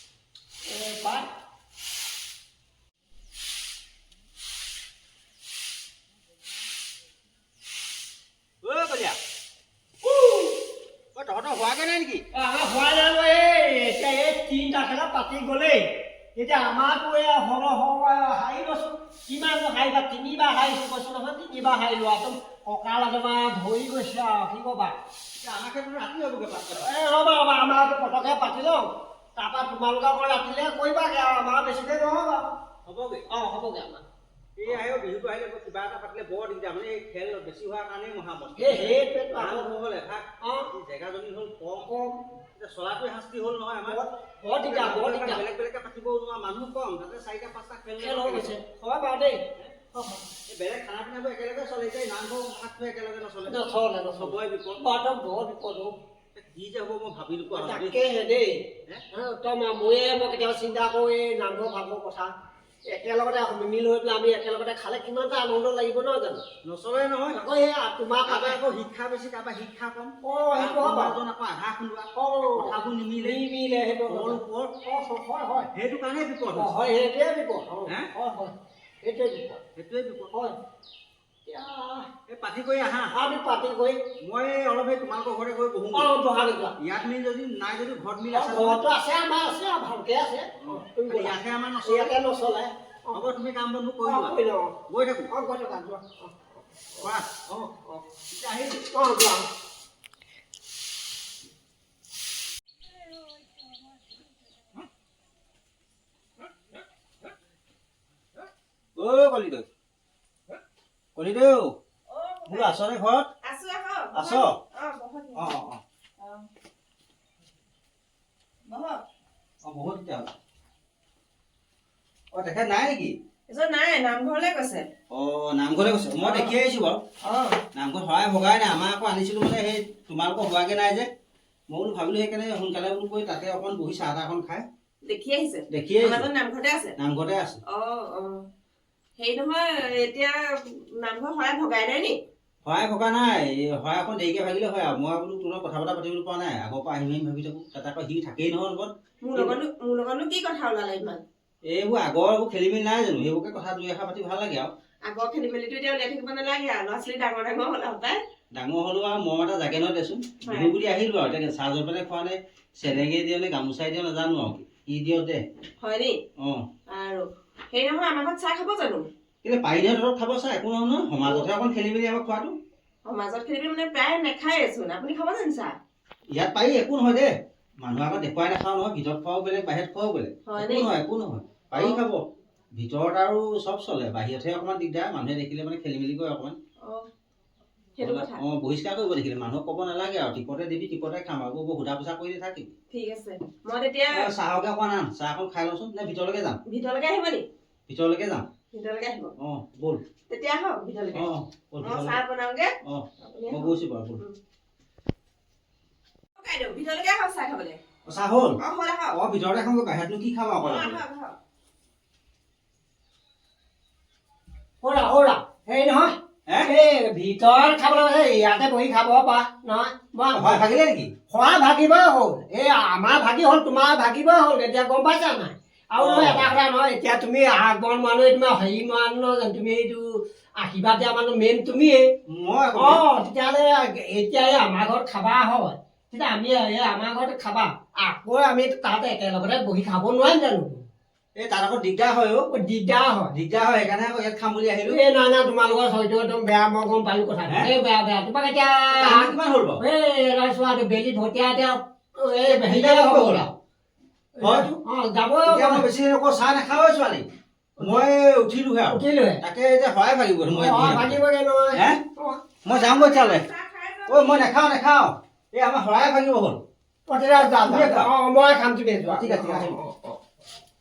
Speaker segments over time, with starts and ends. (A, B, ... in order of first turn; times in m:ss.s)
0:00.7-0:01.3 A
0:08.6-0:09.2 B
0:11.1-0:12.2 B
0:12.3-0:24.9 A
0:25.4-0:26.9 B
0:26.8-0:32.4 A
0:32.8-0:33.3 B
0:33.3-0:34.0 A
0:34.6-0:41.9 B
0:38.6-0:39.7 A
0:40.4-0:40.7 A
0:41.9-0:42.2 A
0:42.6-0:44.0 B
0:43.9-0:45.4 A
0:44.6-0:48.5 B
0:48.0-0:50.2 A
0:50.5-0:53.6 B
0:53.4-0:55.9 A
0:54.2-0:54.8 B
0:56.3-0:58.0 B
0:57.5-0:58.6 A
0:59.1-1:02.3 A
1:02.9-1:06.4 A
1:06.6-1:07.4 B
1:07.4-1:08.6 A
1:08.2-1:13.4 B
1:10.2-1:11.2 A
1:12.1-1:15.7 A
1:14.1-1:14.7 B
1:15.7-1:16.7 B
1:16.5-1:19.6 A
1:19.8-1:20.3 B
1:21.4-1:22.1 A
1:22.3-1:23.1 B
1:23.1-1:24.0 A
1:24.2-1:26.1 B
1:25.9-1:26.8 A
1:26.8-1:28.8 B
1:28.3-1:33.2 A
1:30.6-1:32.2 B
1:33.1-1:35.3 B
1:34.0-1:34.7 A
1:35.3-1:37.1 A
1:37.0-1:38.9 B
1:38.9-1:39.4 A
1:49.0-1:49.7 B
1:51.2-1:51.8 B
1:52.1-1:52.8 C
1:52.5-1:53.3 B
1:53.4-1:55.6 C
1:54.1-1:54.6 B
1:55.3-1:55.8 B
1:56.2-1:56.5 C
1:58.6-1:59.0 C
1:59.6-2:00.3 B
2:02.3-2:03.1 B
2:03.5-2:04.9 C
2:05.1-2:07.0 B
2:06.2-2:06.6 C
2:07.2-2:07.6 C
2:07.7-2:11.1 B
2:11.7-2:14.6 B
2:15.0-2:16.9 C
2:15.7-2:16.3 B
2:17.0-2:17.6 B
2:17.7-2:18.5 C
2:19.2-2:22.2 C
2:22.6-2:29.6 B
2:29.2-2:31.2 C
2:31.6-2:34.7 B
2:35.1-2:38.2 C
2:38.5-2:45.4 B
2:40.4-2:40.7 C
2:45.8-2:46.2 C
2:46.4-2:46.6 B
2:46.9-2:49.1 C
2:49.4-2:52.5 B
2:51.2-2:51.5 C
2:53.0-2:55.8 C
2:56.3-3:06.6 B
3:00.4-3:00.9 C
3:01.7-3:02.0 C
3:08.0-3:08.4 C
3:08.0-3:12.7 B
3:12.9-3:14.3 C
3:14.1-3:16.6 B
3:16.7-3:17.4 C
3:17.9-3:18.5 B
3:18.7-3:19.3 C
3:19.4-3:20.0 B
3:20.3-3:21.3 C
3:21.1-3:22.2 B
3:21.8-3:24.4 C
3:22.8-3:24.2 B
3:26.4-3:27.8 C
3:28.0-3:28.6 B
3:28.6-3:29.2 C
3:29.1-3:31.0 B
3:30.6-3:31.4 C
3:34.8-3:40.6 A
3:40.3-3:41.1 B
3:41.3-3:52.1 A
3:46.0-3:46.5 B
3:52.3-3:53.0 B
3:52.7-4:00.8 A
4:01.4-4:02.5 B
4:02.5-4:03.3 A
4:03.3-4:05.0 B
4:04.8-4:13.5 A
4:07.5-4:07.7 B
4:08.9-4:09.8 B
4:12.4-4:13.4 B
4:14.4-4:15.8 A
4:14.4-4:14.7 B
4:15.4-4:17.2 B
4:17.8-4:21.2 B
4:18.9-4:19.4 A
4:20.5-4:22.4 A
4:21.7-4:22.0 B
4:22.6-4:23.4 B
4:22.7-4:24.5 C
4:24.1-4:26.6 B
4:27.1-4:30.2 A
4:27.6-4:28.1 B
4:29.0-4:29.8 B